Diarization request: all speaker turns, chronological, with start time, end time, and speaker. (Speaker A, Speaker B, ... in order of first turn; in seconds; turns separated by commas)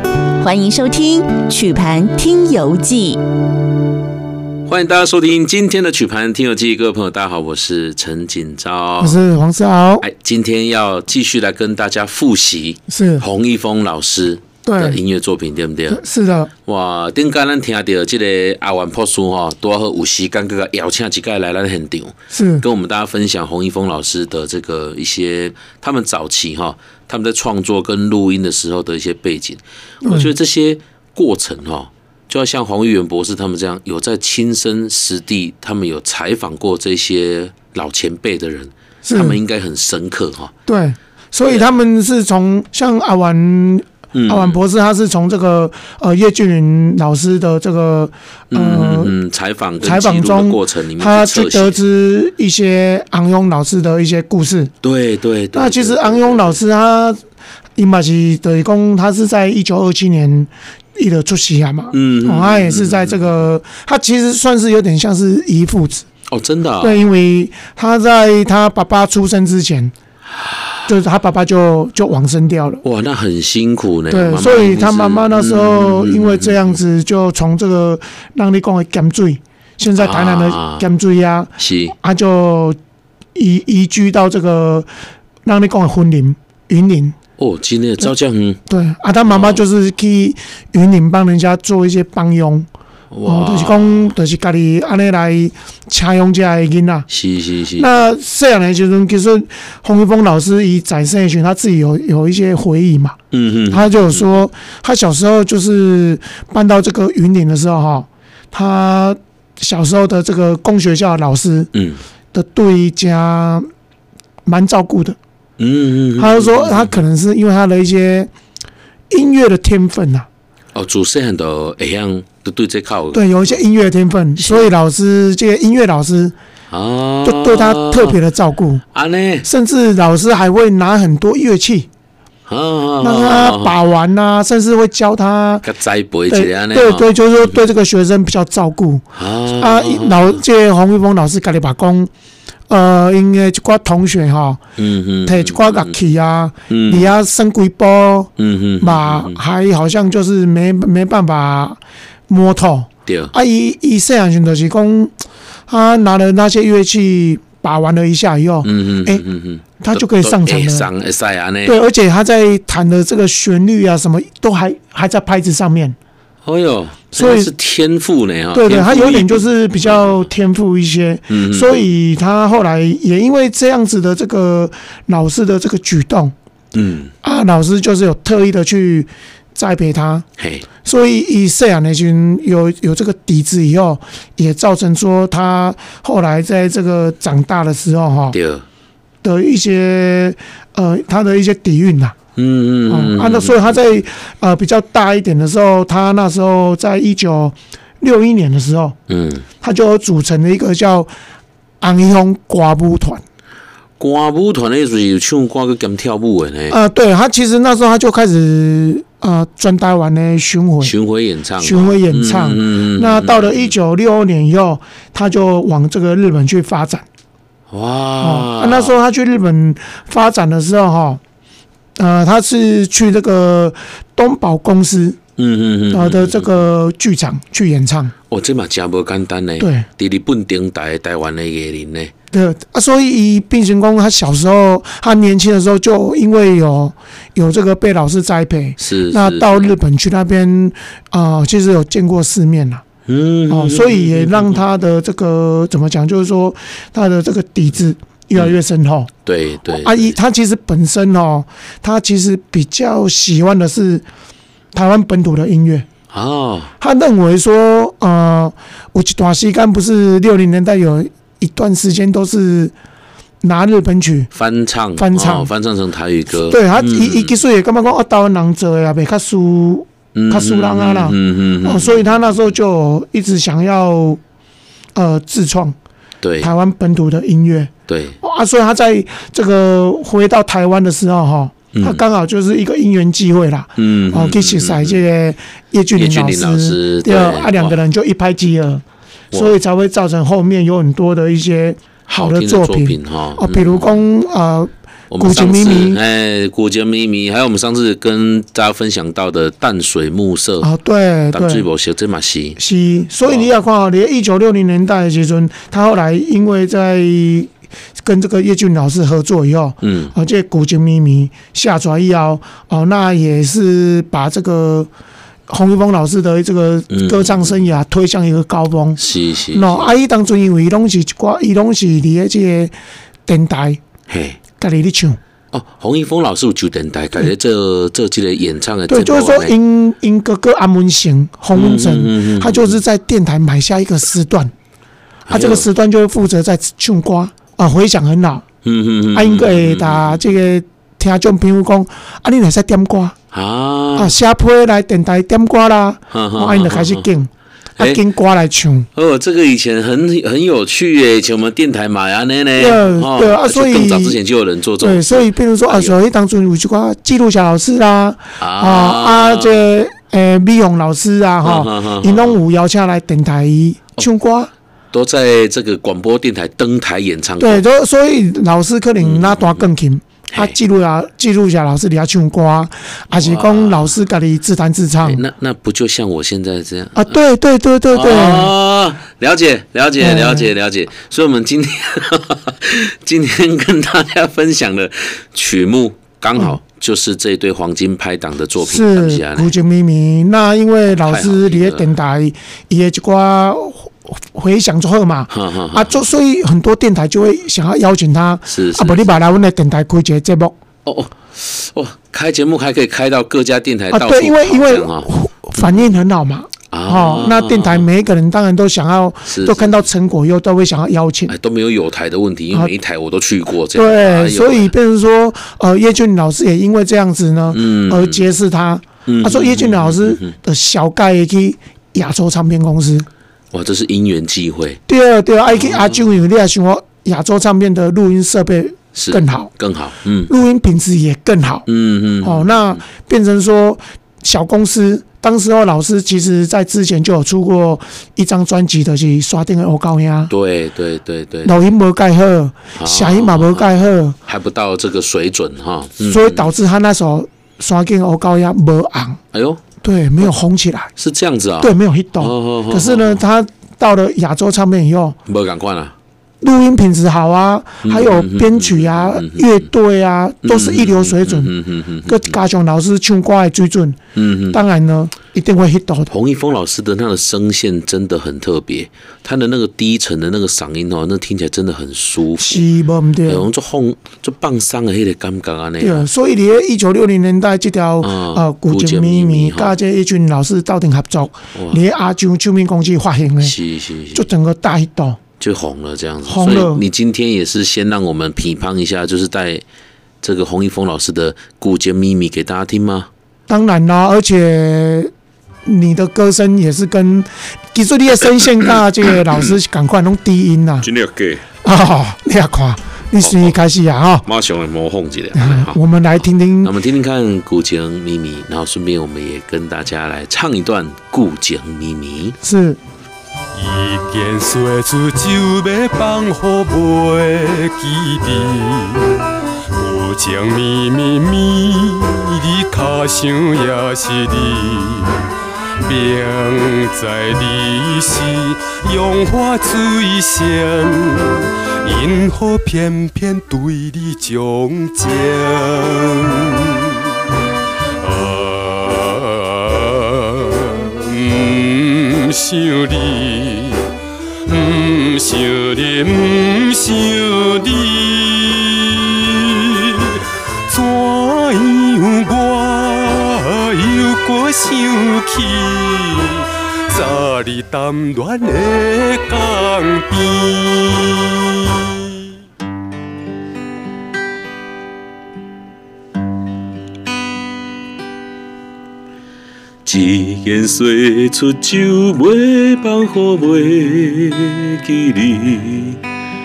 Speaker A: 0.4-3.2, Speaker B: 4.7-9.2, Speaker C: 9.0-10.0, Speaker B: 10.0-16.0, Speaker C: 12.9-13.2, Speaker C: 14.6-15.0, Speaker C: 15.9-16.5, Speaker B: 16.6-40.5, Speaker C: 22.3-22.6, Speaker C: 30.0-30.3, Speaker C: 39.0-39.4, Speaker C: 40.6-49.1, Speaker B: 41.4-41.7, Speaker B: 44.1-44.6, Speaker B: 48.5-51.8, Speaker C: 49.8-54.7, Speaker B: 54.8-56.6, Speaker C: 55.5-57.2, Speaker C: 57.8-66.0, Speaker B: 61.9-63.3, Speaker B: 66.3-67.0, Speaker C: 66.8-69.9, Speaker C: 70.8-72.8, Speaker B: 72.8-76.8, Speaker C: 74.1-82.8, Speaker B: 80.0-80.9, Speaker B: 81.6-82.0, Speaker C: 83.3-84.9, Speaker C: 85.4-87.2, Speaker B: 87.4-88.6, Speaker C: 88.7-92.7, Speaker B: 89.2-89.6, Speaker B: 93.1-94.1, Speaker C: 93.2-97.1, Speaker B: 97.1-97.9, Speaker C: 97.8-103.2, Speaker B: 103.3-104.4, Speaker C: 103.7-111.7, Speaker B: 111.7-112.0, Speaker C: 112.3-113.6, Speaker C: 114.4-115.2, Speaker B: 115.6-117.0, Speaker C: 116.2-118.3, Speaker C: 119.1-120.3, Speaker B: 120.7-123.6, Speaker C: 123.1-126.3, Speaker B: 124.4-124.7, Speaker B: 126.7-128.2, Speaker C: 127.2-128.8, Speaker B: 128.9-129.5, Speaker C: 129.4-131.9, Speaker B: 132.5-133.7, Speaker C: 133.0-135.7, Speaker B: 135.6-137.5, Speaker C: 136.3-142.1, Speaker B: 139.1-140.4, Speaker C: 142.7-144.6, Speaker B: 144.8-145.9, Speaker C: 145.2-155.1, Speaker B: 146.7-147.1, Speaker B: 148.4-149.4, Speaker B: 153.1-153.3, Speaker C: 155.7-159.2, Speaker B: 158.6-161.8, Speaker C: 159.8-160.9, Speaker C: 161.6-165.9, Speaker B: 166.4-170.3, Speaker C: 167.1-167.5, Speaker C: 168.5-176.3, Speaker B: 171.3-171.8, Speaker B: 176.7-177.1, Speaker C: 177.2-180.2, Speaker B: 180.4-180.7, Speaker C: 180.8-188.4, Speaker B: 188.3-188.6, Speaker C: 189.2-192.2, Speaker B: 192.3-193.7, Speaker C: 192.9-199.0, Speaker B: 199.1-199.4, Speaker C: 199.6-201.1, Speaker C: 201.8-203.2, Speaker B: 204.0-206.8, Speaker C: 206.7-210.9, Speaker B: 210.8-213.7, Speaker C: 211.6-217.1, Speaker B: 217.7-218.9, Speaker C: 218.2-221.2, Speaker C: 222.0-225.2, Speaker B: 225.4-226.6, Speaker C: 225.9-228.1, Speaker B: 228.3-232.1, Speaker C: 229.6-229.9, Speaker C: 232.3-242.8, Speaker B: 238.8-239.7, Speaker B: 243.1-244.6, Speaker C: 243.5-249.1, Speaker B: 249.2-250.1, Speaker C: 249.7-254.0, Speaker C: 254.7-255.9, Speaker B: 256.1-256.7, Speaker C: 256.8-262.7, Speaker C: 263.4-264.3, Speaker B: 264.3-267.4, Speaker C: 265.0-265.5, Speaker C: 266.4-274.2, Speaker B: 270.1-272.2, Speaker C: 274.9-275.8, Speaker B: 276.2-276.5, Speaker C: 276.4-296.0, Speaker B: 277.9-278.2, Speaker B: 281.7-282.0, Speaker B: 283.8-285.0, Speaker B: 285.9-287.8, Speaker B: 289.3-289.6, Speaker B: 292.1-294.1, Speaker B: 295.1-300.7, Speaker C: 300.6-301.7, Speaker B: 301.3-302.6, Speaker C: 302.6-307.5, Speaker B: 303.2-303.5, Speaker C: 308.0-314.9, Speaker B: 309.8-310.1, Speaker C: 315.5-319.0, Speaker B: 316.9-317.6, Speaker B: 319.0-319.9, Speaker C: 319.5-322.7, Speaker C: 323.2-323.8, Speaker B: 324.1-324.4, Speaker C: 324.6-325.2, Speaker B: 325.5-329.5, Speaker C: 328.9-334.5, Speaker B: 331.5-332.8, Speaker B: 335.2-335.7, Speaker C: 335.3-338.4, Speaker B: 338.6-340.2, Speaker C: 339.1-343.1, Speaker B: 343.3-344.1, Speaker C: 343.9-348.9, Speaker B: 346.1-347.1, Speaker B: 348.9-355.9, Speaker C: 352.5-354.2, Speaker C: 354.8-364.5, Speaker B: 358.4-359.7, Speaker B: 361.4-362.4, Speaker B: 364.9-367.6, Speaker C: 367.4-375.2, Speaker B: 369.0-369.6, Speaker B: 370.3-370.6, Speaker B: 373.1-373.9, Speaker B: 375.0-377.2, Speaker C: 376.9-378.5, Speaker B: 377.9-389.6, Speaker C: 380.0-380.5, Speaker C: 388.6-400.6, Speaker B: 390.9-391.9, Speaker B: 395.3-396.1, Speaker B: 398.4-399.2, Speaker B: 400.8-405.9, Speaker C: 403.9-411.3, Speaker B: 406.7-407.9, Speaker B: 409.2-409.8, Speaker B: 411.3-414.7, Speaker C: 413.7-423.1, Speaker B: 417.5-418.4, Speaker B: 419.1-420.3, Speaker B: 423.5-424.8, Speaker C: 424.9-429.5, Speaker B: 425.5-426.2, Speaker B: 428.9-430.3, Speaker C: 430.3-431.6, Speaker B: 431.6-432.8, Speaker C: 432.2-440.3, Speaker B: 440.3-441.5, Speaker C: 441.4-444.2, Speaker B: 442.7-443.7, Speaker B: 444.3-446.5, Speaker C: 446.0-449.2, Speaker B: 449.3-449.6, Speaker C: 449.8-450.9, Speaker B: 451.0-453.2, Speaker C: 451.6-455.2, Speaker B: 455.2-455.9, Speaker C: 456.4-461.5, Speaker B: 457.8-459.6, Speaker B: 460.4-462.4, Speaker C: 462.0-464.0, Speaker B: 464.1-464.6, Speaker C: 464.5-466.1, Speaker B: 466.1-472.6, Speaker C: 472.4-473.4, Speaker B: 473.2-476.1, Speaker C: 475.8-483.5, Speaker B: 478.0-479.8, Speaker B: 481.5-481.8, Speaker B: 483.4-484.2, Speaker C: 484.1-485.2, Speaker B: 485.4-489.6, Speaker C: 486.2-486.8, Speaker B: 490.2-493.1, Speaker C: 493.5-495.1, Speaker C: 495.6-500.9, Speaker B: 500.8-501.5, Speaker C: 501.6-504.3, Speaker B: 503.2-503.6, Speaker B: 504.2-505.8, Speaker C: 505.3-506.7, Speaker B: 506.6-512.4, Speaker C: 512.4-512.8, Speaker D: 513.5-519.1, Speaker D: 519.7-525.2, Speaker D: 525.8-537.0, Speaker D: 538.0-543.9, Speaker D: 544.5-562.0, Speaker B: 569.8-576.0